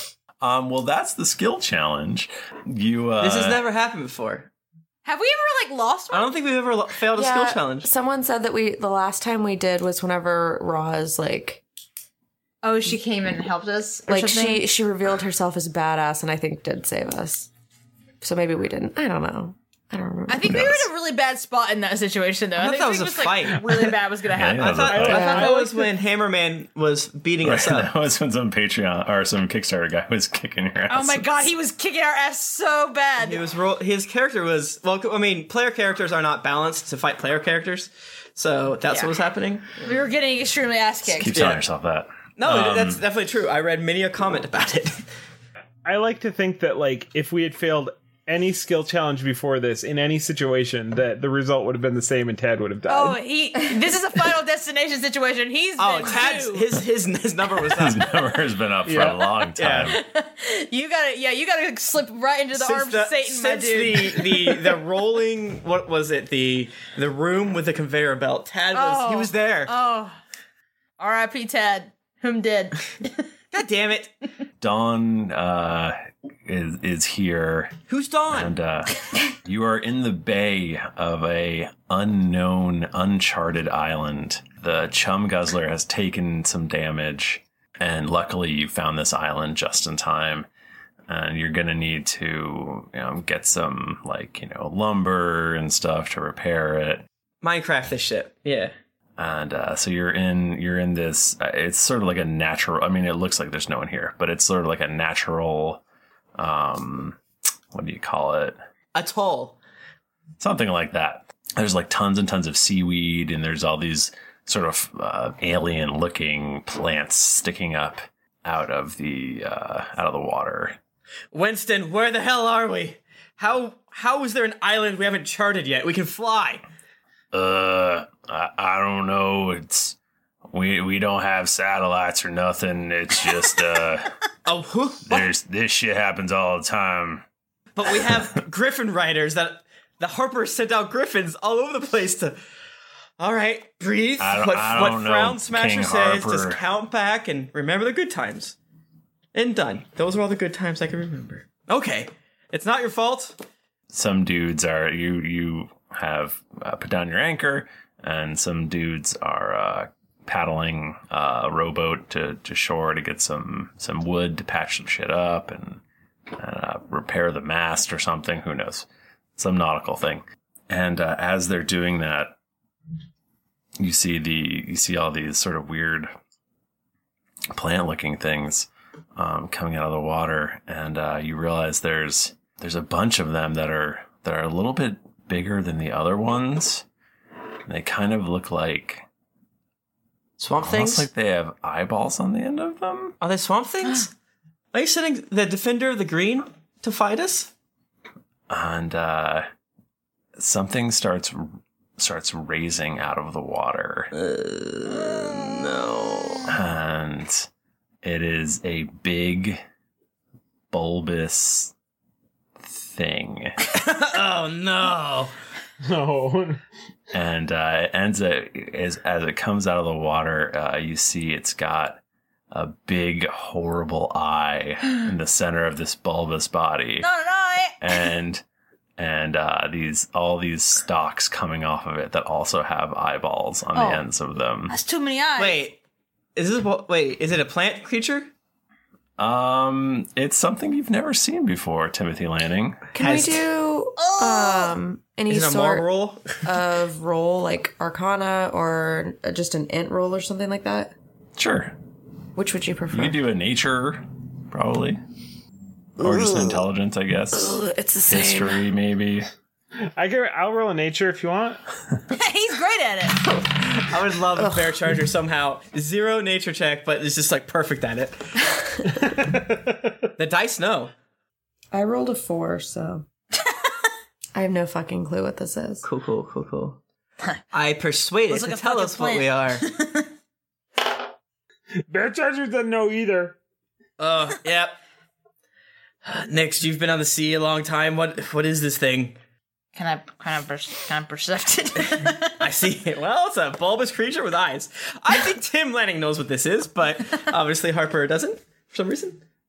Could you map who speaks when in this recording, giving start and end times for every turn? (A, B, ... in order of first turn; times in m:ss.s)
0:00.4-0:03.6 A
0:03.2-0:04.5 B
0:05.0-0:06.3 C
0:06.1-0:07.9 B
0:07.1-0:11.6 D
0:12.6-0:14.7 C
0:14.1-0:17.5 D
0:18.2-0:20.6 D
0:20.3-0:25.5 C
0:20.4-0:20.9 A
0:22.6-0:23.6 B
0:24.3-0:25.3 A
0:24.6-0:27.9 B
0:24.9-0:25.9 E
0:25.1-0:25.6 D
0:27.4-0:31.5 A
0:30.9-0:33.4 C
0:33.2-0:40.0 B
0:38.9-0:39.2 C
0:39.8-0:41.4 C
0:41.1-0:43.0 A
0:41.3-0:41.6 B
0:42.4-0:45.0 B
0:45.8-0:53.2 E
0:52.9-0:56.7 C
0:55.8-0:58.0 B
0:57.7-1:00.0 A
0:58.8-0:59.3 E
0:59.6-1:00.0 B
0:59.9-1:04.8 C
1:02.5-1:09.7 B
1:08.7-1:10.2 C
1:11.0-1:13.2 C
1:13.5-1:14.1 B
1:14.6-1:17.8 A
1:17.9-1:18.5 B
1:18.3-1:30.5 A
1:31.1-1:37.1 A
1:37.4-1:38.7 B
1:39.2-1:45.8 A
1:46.4-1:47.2 A
1:47.7-1:48.6 A
1:49.0-1:49.6 B
1:50.4-2:00.8 A
2:01.3-2:06.6 B
2:07.3-2:10.0 A
2:10.5-2:14.1 A
2:14.5-2:15.3 B
2:15.1-2:17.2 A
2:17.8-2:22.4 B
2:23.2-2:28.6 B
2:24.2-2:26.6 A
2:29.3-2:33.4 B
2:33.9-2:45.8 A
2:46.3-2:52.4 A
2:53.8-2:56.1 A
2:57.5-3:06.8 A
3:07.7-3:09.1 A
3:10.4-3:11.1 B
3:10.6-3:13.2 A
3:13.2-3:14.1 B
3:14.7-3:17.5 B
3:18.5-3:19.5 A
3:20.4-3:24.1 A
3:24.1-3:26.5 B
3:26.5-3:27.5 A
3:28.0-3:29.6 A
3:30.7-3:31.7 A
3:32.6-3:33.6 A
3:33.7-3:35.3 B
3:35.8-3:36.6 E
3:37.1-3:47.1 A
3:47.0-3:47.8 C
3:47.8-3:48.4 A
3:49.0-3:54.8 A
3:53.8-3:54.0 C
3:54.7-3:55.7 C
3:55.4-3:55.8 B
3:56.4-3:58.3 B
3:59.2-4:02.8 A
4:03.0-4:05.9 D
4:03.0-4:03.4 B
4:04.0-4:04.7 C
4:05.3-4:06.4 B
4:06.4-4:10.9 D
4:11.4-4:11.8 A
4:12.4-4:13.2 D
4:12.9-4:15.0 A
4:16.0-4:19.3 A
4:16.0-4:16.6 D
4:17.4-4:18.6 D
4:20.0-4:21.6 E
4:22.1-4:23.2 C
4:23.3-4:28.2 B
4:29.0-4:29.9 E
4:30.2-4:30.9 B
4:31.7-4:33.0 D
4:34.4-4:35.8 D
4:35.8-4:36.8 B
4:37.5-4:39.7 B
4:38.3-4:40.1 C
4:41.9-4:43.4 E
4:44.0-4:44.8 B
4:46.0-4:49.2 B
4:49.8-4:52.4 C
4:52.4-4:59.2 B